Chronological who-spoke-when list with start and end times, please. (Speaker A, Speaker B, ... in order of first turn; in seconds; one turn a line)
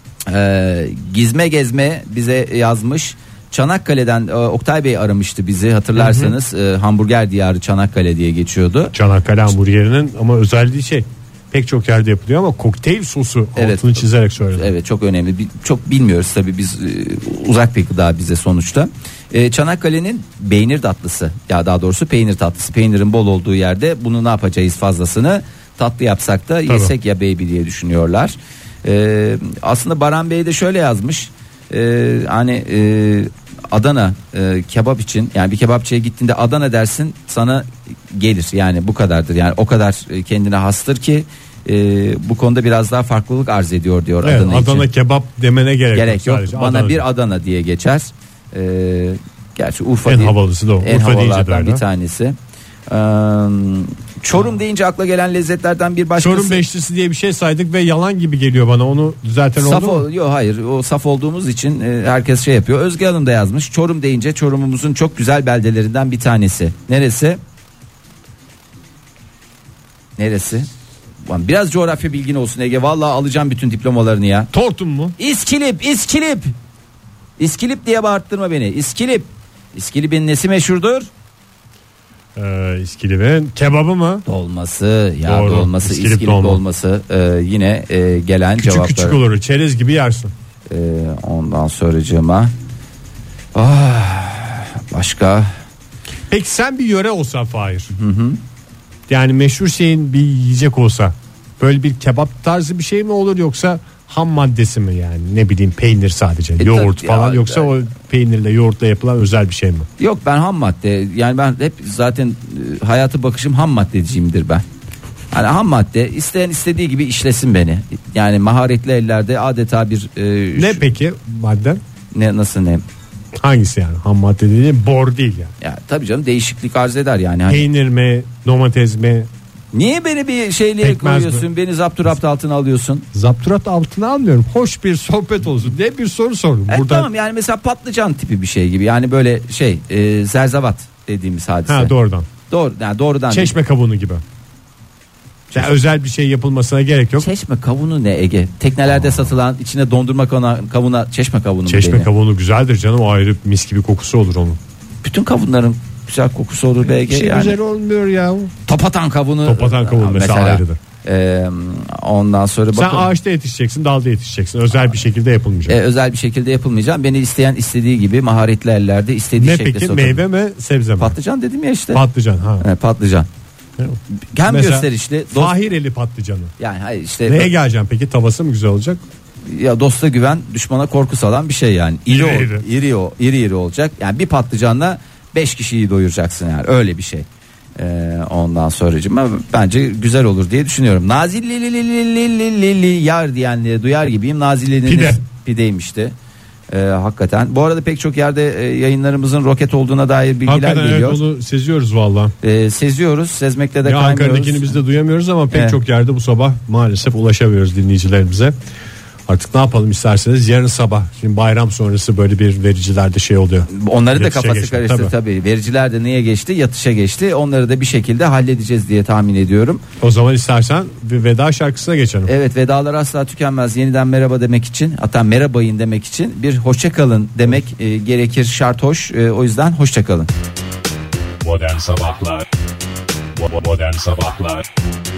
Speaker A: 0.3-8.9
Speaker B: 6.0-6.3
Speaker B: 8.9-14.7
Speaker A: 13.6-44.9
Speaker B: 26.7-26.9
Speaker B: 44.2-47.0
Speaker A: 46.0-52.4
Speaker B: 50.1-51.8
Speaker A: 52.9-56.6
Speaker B: 56.2-60.0
Speaker A: 59.6-67.4
Speaker A: 70.2-70.7
Speaker A: 71.3-74.5
Speaker B: 74.5-75.2
Speaker A: 75.2-76.5
Speaker A: 77.4-81.1
Speaker B: 82.4-84.2
Speaker A: 84.3-89.2
Speaker B: 85.2-86.6
Speaker B: 88.6-90.3
Speaker A: 90.7-92.5
Speaker A: 93.5-95.5
Speaker B: 96.3-97.9
Speaker A: 98.0-98.4
Speaker B: 99.1-109.9
Speaker A: 106.6-107.8
Speaker A: 110.0-114.6
Speaker A: 115.3-120.9
Speaker B: 120.6-121.8
Speaker A: 122.1-122.8
Speaker B: 123.4-125.5
Speaker A: 125.6-127.7
Speaker B: 127.5-129.3
Speaker A: 129.7-133.1
Speaker B: 130.8-131.5
Speaker B: 133.1-137.1
Speaker A: 136.7-141.9
Speaker B: 141.7-142.3
Speaker A: 142.5-143.5
Speaker B: 143.3-144.2
Speaker A: 145.5-145.8
Speaker B: 145.5-147.3
Speaker A: 147.2-152.1
Speaker B: 151.7-154.6
Speaker A: 155.0-157.6
Speaker B: 157.1-158.5
Speaker A: 158.7-163.1
Speaker B: 159.4-160.8
Speaker B: 162.8-165.8
Speaker A: 165.7-170.2
Speaker B: 169.4-171.1
Speaker A: 171.0-172.0
Speaker B: 171.9-172.6
Speaker A: 172.6-173.3
Speaker B: 173.8-176.5
Speaker A: 174.3-175.5
Speaker A: 176.6-177.5
Speaker B: 177.3-179.0
Speaker A: 179.4-196.1
Speaker B: 182.1-182.6
Speaker B: 194.9-195.2
Speaker A: 196.7-201.2
Speaker B: 200.5-202.3
Speaker A: 202.4-204.7
Speaker B: 203.8-208.5
Speaker A: 205.5-205.8
Speaker B: 209.3-215.1
Speaker A: 213.7-219.8
Speaker B: 220.0-222.3
Speaker A: 222.2-230.3
Speaker C: 231.4-232.5
Speaker C: 233.3-234.7